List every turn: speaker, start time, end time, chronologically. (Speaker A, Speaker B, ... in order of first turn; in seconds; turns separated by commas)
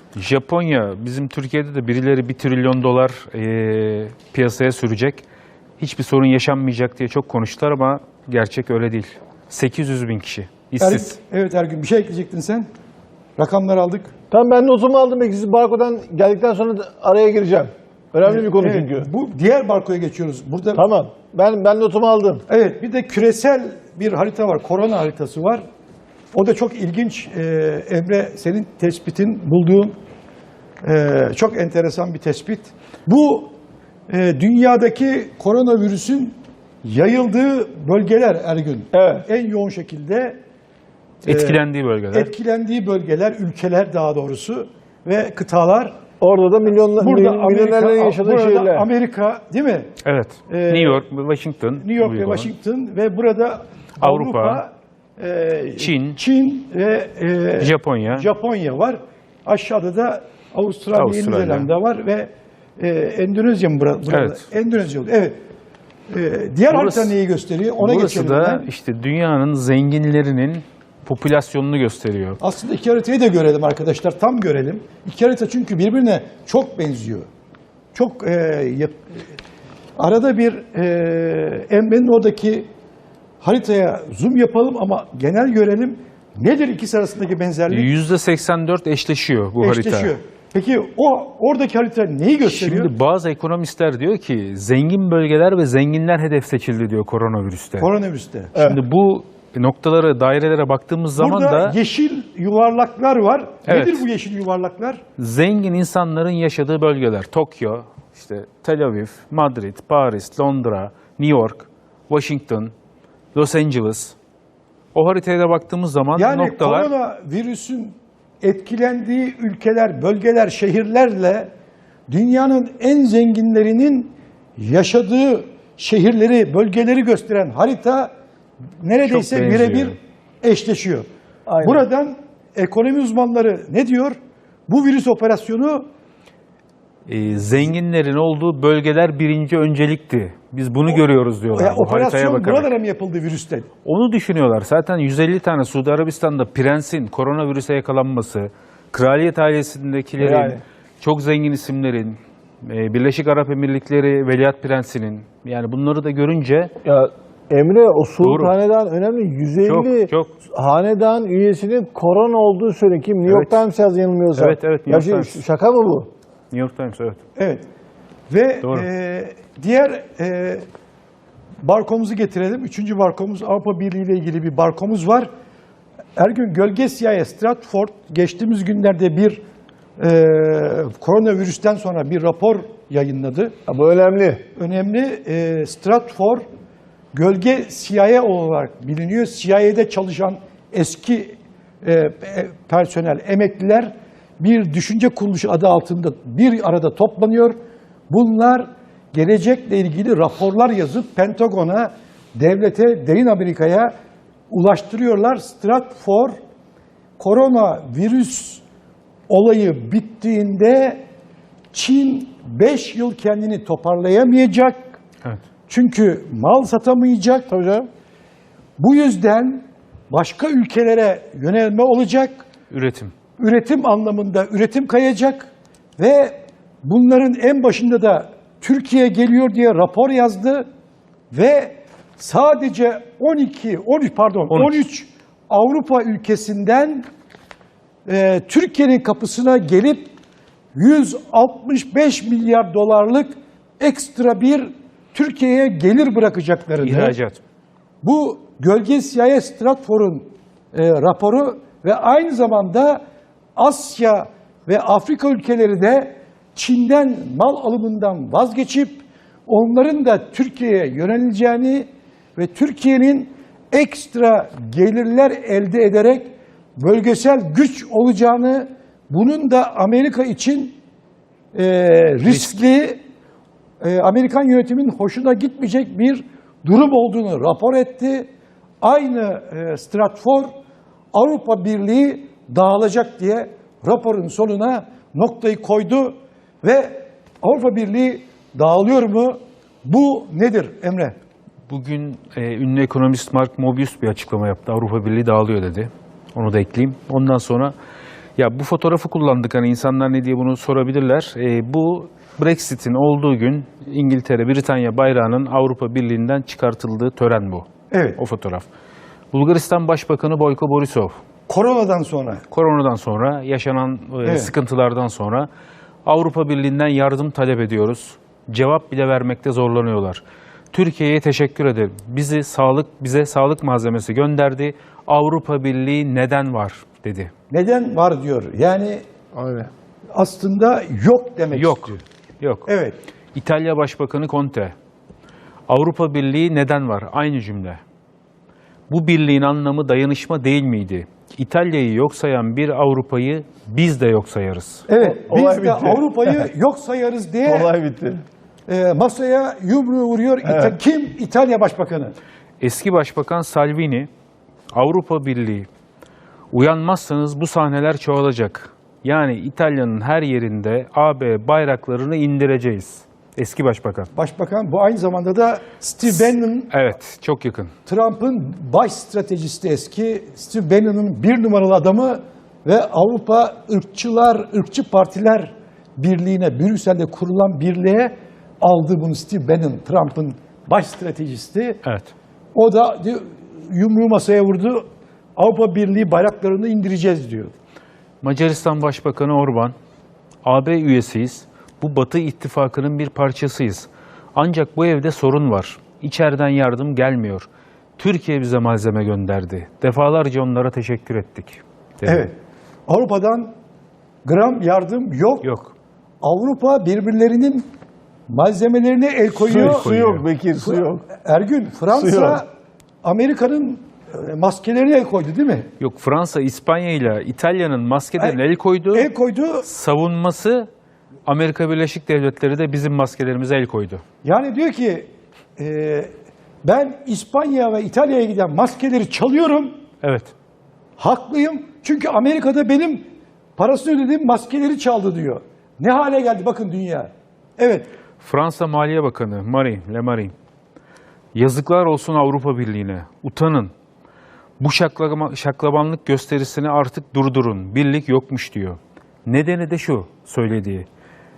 Speaker A: 0.1-5.2, Speaker A: 5.8-11.2, Speaker B: 10.8-12.7, Speaker B: 13.4-14.1, Speaker C: 14.3-19.1, Speaker B: 18.2-20.8, Speaker C: 20.8-22.4, Speaker B: 22.5-25.6, Speaker B: 26.3-29.9, Speaker B: 30.8-33.5, Speaker B: 34.1-40.4, Speaker C: 38.9-39.3, Speaker A: 41.2-42.3, Speaker B: 41.3-41.6, Speaker B: 42.1-46.0, Speaker C: 46.2-48.9, Speaker B: 47.0-49.9, Speaker A: 50.0-52.5, Speaker B: 50.5-51.0, Speaker B: 51.8-65.4, Speaker A: 54.0-54.6, Speaker A: 55.8-56.2, Speaker A: 57.6-58.3, Speaker A: 60.9-61.7, Speaker A: 64.1-64.5, Speaker B: 66.1-68.7, Speaker A: 66.7-67.1, Speaker A: 67.8-72.4, Speaker B: 72.4-77.3, Speaker B: 77.9-79.0, Speaker B: 80.0-82.7, Speaker B: 83.4-87.9, Speaker A: 87.7-90.2, Speaker B: 89.6-92.9, Speaker A: 92.4-97.9, Speaker B: 97.8-98.6, Speaker A: 98.6-101.8, Speaker B: 101.2-105.0, Speaker A: 103.7-104.0, Speaker A: 105.2-112.7, Speaker A: 113.3-114.2, Speaker A: 114.9-116.9, Speaker B: 116.2-121.5, Speaker B: 122.1-128.1, Speaker B: 128.8-131.1, Speaker A: 129.0-130.0, Speaker C: 131.5-131.9, Speaker B: 131.6-134.2, Speaker B: 134.7-135.9, Speaker A: 137.1-142.7, Speaker B: 140.9-143.7, Speaker A: 143.8-156.7, Speaker C: 150.2-150.6, Speaker C: 156.8-166.1, Speaker A: 158.2-158.5, Speaker A: 159.6-160.3, Speaker A: 163.3-163.6, Speaker A: 164.4-165.4, Speaker A: 166.5-167.2, Speaker B: 167.4-167.6, Speaker B: 168.3-170.6, Speaker A: 168.6-168.9, Speaker B: 171.6-175.3, Speaker B: 176.2-179.4, Speaker B: 180.0-183.5, Speaker C: 183.7-184.4, Speaker B: 184.6-186.4, Speaker B: 187.1-197.6, Speaker B: 198.1-203.9, Speaker B: 204.5-206.4, Speaker B: 207.2-208.6, Speaker B: 209.3-211.0, Speaker B: 211.7-214.9, Speaker B: 215.7-217.5, Speaker C: 217.5-217.9, Speaker B: 218.8-222.4, Speaker A: 222.7-223.1, Speaker B: 223.4-230.7, Speaker B: 231.3-237.1, Speaker A: 234.5-234.8, Speaker B: 238.1-240.1, Speaker B: 240.8-247.2, Speaker A: 246.8-247.4, Speaker B: 248.0-253.0, Speaker B: 253.6-270.8, Speaker B: 271.5-273.0, Speaker A: 272.3-272.6, Speaker B: 273.8-278.3, Speaker B: 278.8-280.5, Speaker B: 281.1-291.1, Speaker A: 291.7-297.8, Speaker A: 298.4-308.7, Speaker B: 307.9-308.2, Speaker A: 309.3-311.2, Speaker B: 311.5-312.4, Speaker A: 312.5-315.5, Speaker B: 314.2-314.5, Speaker A: 316.1-327.3, Speaker B: 327.5-329.0, Speaker C: 329.4-329.7, Speaker B: 330.1-332.0, Speaker A: 331.5-332.7, Speaker B: 332.7-333.0, Speaker A: 333.4-334.8, Speaker A: 335.7-337.8, Speaker A: 338.9-344.9, Speaker B: 344.9-347.7, Speaker C: 345.0-346.5, Speaker C: 347.4-348.2, Speaker B: 348.7-352.1, Speaker C: 350.4-350.8, Speaker A: 352.6-354.1, Speaker A: 354.7-355.7, Speaker A: 356.5-364.1, Speaker B: 364.1-366.7, Speaker A: 366.1-367.7, Speaker B: 367.9-381.8, Speaker A: 381.8-382.1, Speaker B: 382.6-384.8, Speaker B: 385.4-387.5, Speaker A: 388.2-389.8, Speaker A: 390.4-402.3, Speaker B: 402.1-402.3, Speaker B: 402.9-403.5, Speaker B: 404.2-405.5, Speaker A: 405.4-405.7, Speaker B: 406.2-407.7, Speaker B: 408.3-409.9, Speaker C: 409.4-411.1, Speaker A: 409.5-410.3, Speaker B: 410.6-412.5, Speaker C: 411.9-412.4, Speaker B: 413.0-415.7, Speaker A: 415.8-419.1, Speaker B: 418.9-419.7, Speaker A: 419.6-420.7, Speaker A: 421.3-424.0, Speaker B: 424.2-426.1, Speaker B: 426.6-429.7, Speaker A: 430.0-430.3, Speaker B: 431.0-433.0, Speaker B: 433.6-437.9, Speaker A: 438.2-440.3, Speaker A: 441.4-443.7, Speaker A: 444.6-450.9